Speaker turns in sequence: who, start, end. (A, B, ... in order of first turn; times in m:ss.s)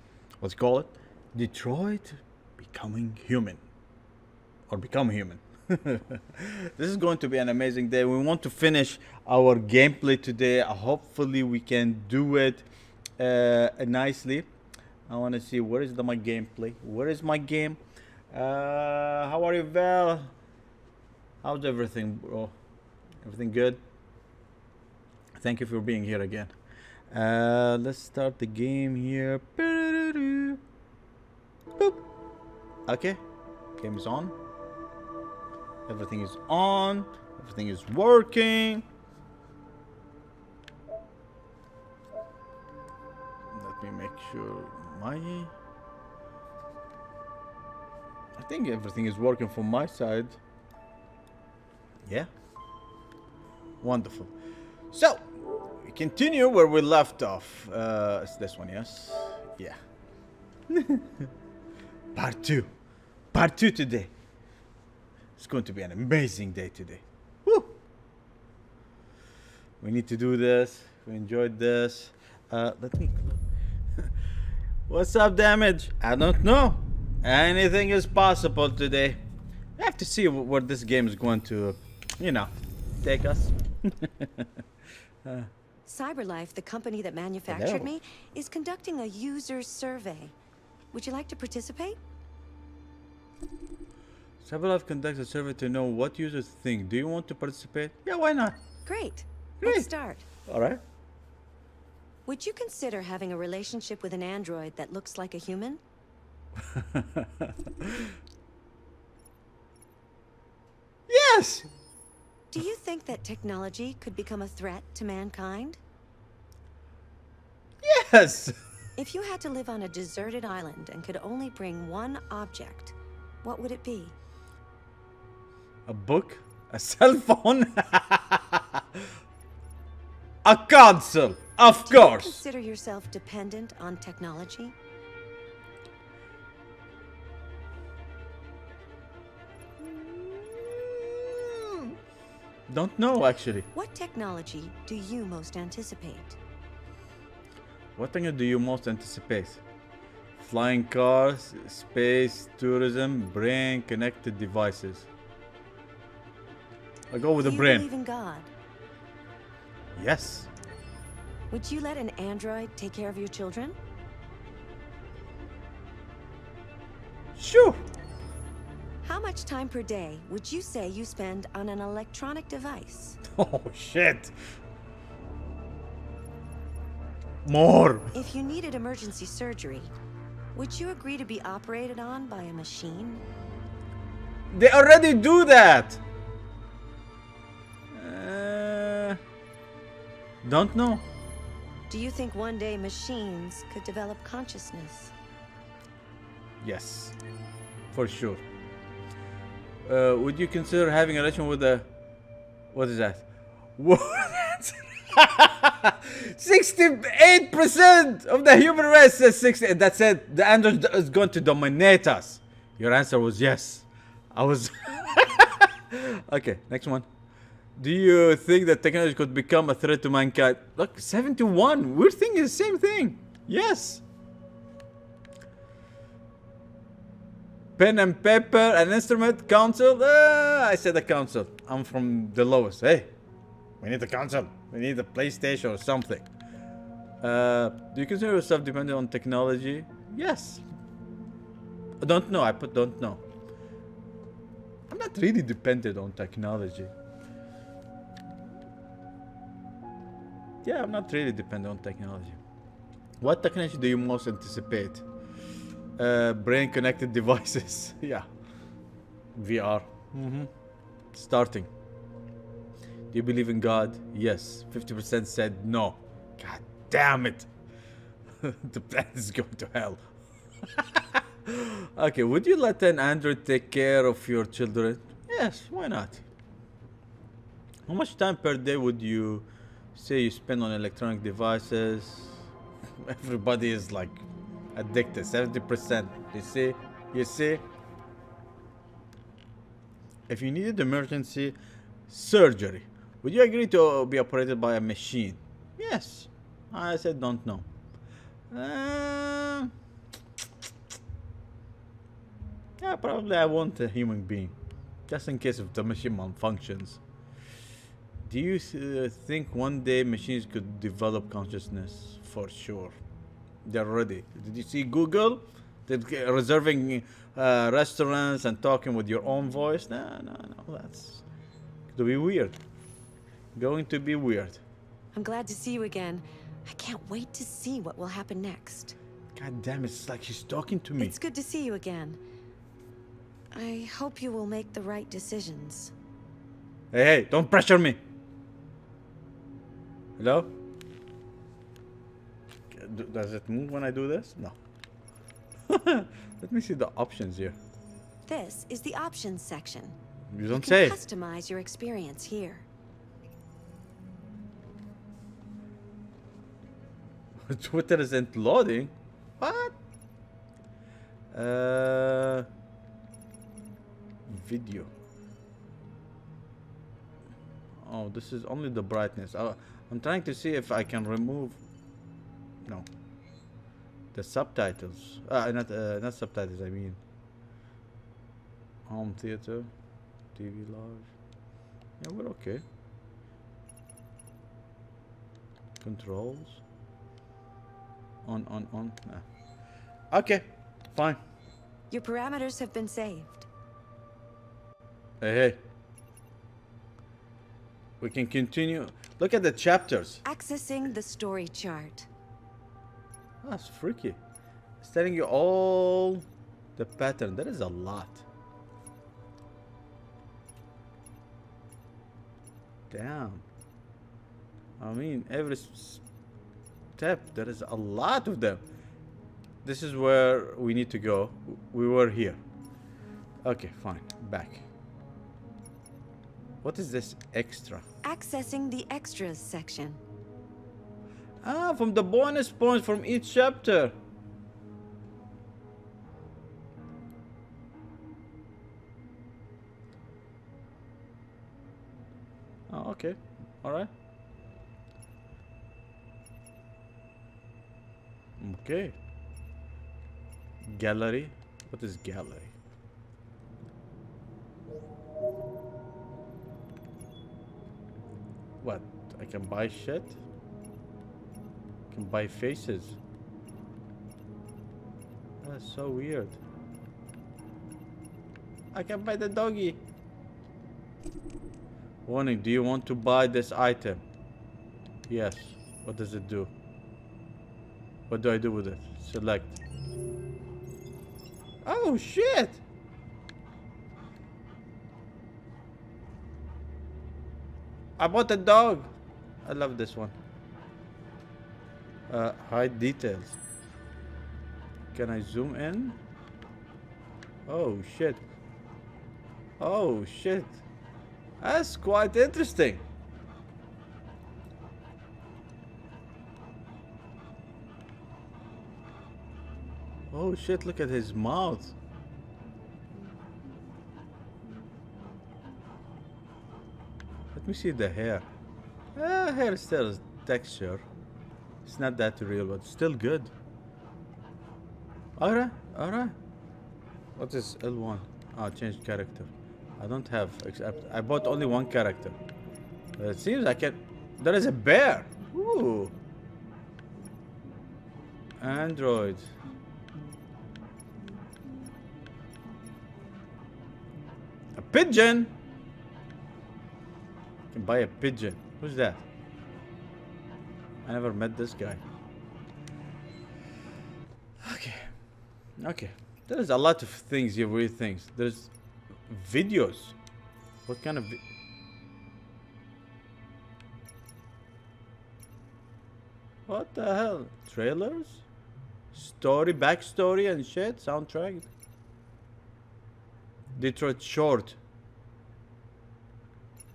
0:00.4-0:03.6 A
0:04.7-0:12.6 A
0:13.2-0:14.5 A
0:15.1-0:17.8 A
0:18.3-0:20.3 A
0:21.4-0:22.5 A
0:23.2-0:23.8 A
0:25.4-0:26.5 A
0:27.1-0:30.6 A
0:31.8-0:32.0 A
0:32.9-0:33.2 A
0:33.8-0:34.3 A
0:35.9-0:38.8 A
0:43.5-0:45.5 A
0:48.4-0:50.4 A
0:53.8-0:54.3 A
0:54.9-0:59.8 A
1:00.7-1:01.3 A
1:02.1-1:02.7 A
1:03.3-1:04.1 A
1:05.4-1:07.7 A
1:09.8-1:13.3 A
1:14.9-1:19.2 A
1:19.8-1:24.5 A
1:25.2-1:25.5 A
1:25.8-1:30.3 B
1:27.5-1:27.9 A
1:30.9-1:32.0 B
1:34.4-1:38.6 A
1:38.8-1:40.2 B
1:39.6-1:39.9 A
1:40.5-1:40.8 A
1:42.2-1:45.8 B
1:46.7-1:48.1 A
1:51.1-1:51.7 A
1:52.5-1:55.8 B
1:57.8-1:58.5 A
1:59.0-2:04.1 B
2:05.9-2:09.0 A
2:10.4-2:12.4 A
2:11.8-2:14.7 B
2:19.8-2:21.9 A
2:22.7-2:23.7 A
2:23.7-2:26.4 B
2:28.0-2:29.6 A
2:30.4-2:35.1 A
2:37.1-2:37.9 A
2:37.4-2:38.5 B
2:40.0-2:40.5 A
2:41.5-2:43.8 B
2:47.4-2:47.8 A
2:49.0-2:53.2 B
2:53.3-2:54.3 A
2:57.4-2:58.1 A
2:58.1-2:59.9 B
3:00.5-3:03.2 B
3:04.5-3:06.0 A
3:07.9-3:09.2 A
3:10.4-3:11.0 A
3:11.9-3:15.1 B
3:16.6-3:17.2 A
3:17.9-3:18.4 A
3:19.8-3:21.9 A
3:22.7-3:23.2 A
3:23.8-3:37.1 A
3:37.8-3:44.0 A
3:47.8-3:53.1 A
3:53.8-3:56.3 A
3:57.2-4:00.6 A
4:02.0-4:03.2 A
4:04.9-4:06.9 A
4:10.6-4:12.4 A
4:13.2-4:15.0 A
4:16.0-4:18.2 A
4:19.3-4:20.5 A
4:21.1-4:21.7 A
4:23.1-4:27.5 A
4:28.4-4:30.0 A
4:30.7-4:36.2 A
4:37.9-4:42.5 A
4:43.0-4:47.6 A
4:50.3-4:51.6 A
4:52.1-4:57.6 A
4:58.5-4:59.7 A
5:02.8-5:04.5 A
5:05.1-5:07.0 A
5:08.2-5:12.9 A
5:13.6-5:21.2 A
5:21.9-5:22.6 A
5:23.5-5:24.6 A
5:25.1-5:29.0 B
5:29.3-5:31.2 A
5:31.0-5:32.2 B
5:33.5-5:35.9 B
5:36.9-5:38.0 A
5:40.2-5:40.5 A
5:42.7-5:44.5 A
5:45.7-5:47.6 A
5:48.2-5:50.0 B
5:50.3-5:51.0 A
5:50.5-5:52.6 B
5:57.4-5:59.7 A
6:01.3-6:02.5 A
6:04.2-6:04.9 A
6:07.8-6:11.6 A
6:14.1-6:17.0 A
6:18.9-6:19.7 A
6:20.3-6:21.1 A
6:22.0-6:22.6 A
6:25.8-6:26.6 A
6:28.2-6:29.2 A
6:30.1-6:31.2 A
6:31.9-6:33.5 B
6:35.2-6:35.6 A
6:38.0-6:40.2 A
6:40.2-6:42.1 B
6:43.4-6:44.2 A
6:44.8-6:46.2 A
6:46.8-6:48.2 A
6:52.9-6:53.4 A
6:54.8-6:56.0 A
6:57.0-6:58.6 A
6:59.6-7:02.4 A
7:03.4-7:04.6 A
7:06.6-7:07.8 A
7:08.0-7:10.0 B
7:11.4-7:13.9 A
7:22.7-7:23.9 A
7:28.4-7:29.0 A
7:30.6-7:32.5 A
7:38.6-7:40.2 A
7:41.9-7:43.0 A
7:45.4-7:46.4 A
7:48.7-7:49.8 A
7:52.0-7:54.0 A
7:55.1-7:56.5 A
7:58.1-7:59.6 A
8:01.6-8:02.6 A
8:08.0-8:08.9 A
8:09.4-8:10.1 A
8:12.1-8:13.4 A
8:14.9-8:16.0 A
8:17.5-8:18.2 A
8:19.6-8:20.6 A
8:21.4-8:22.8 A
8:30.1-8:31.7 A
8:37.3-8:38.2 A
8:38.9-8:40.8 A
8:41.6-8:43.3 A
8:45.2-8:46.2 A
8:47.2-8:52.2 A
8:53.0-8:55.9 A
8:58.4-8:59.3 A
9:04.5-9:05.3 A
9:07.5-9:09.0 A
9:10.8-9:11.8 A
9:14.4-9:14.9 A
9:15.6-9:18.5 A
9:19.0-9:19.9 A
9:20.6-9:21.2 A
9:26.5-9:28.2 A
9:28.9-9:31.5 A
9:33.5-9:34.6 A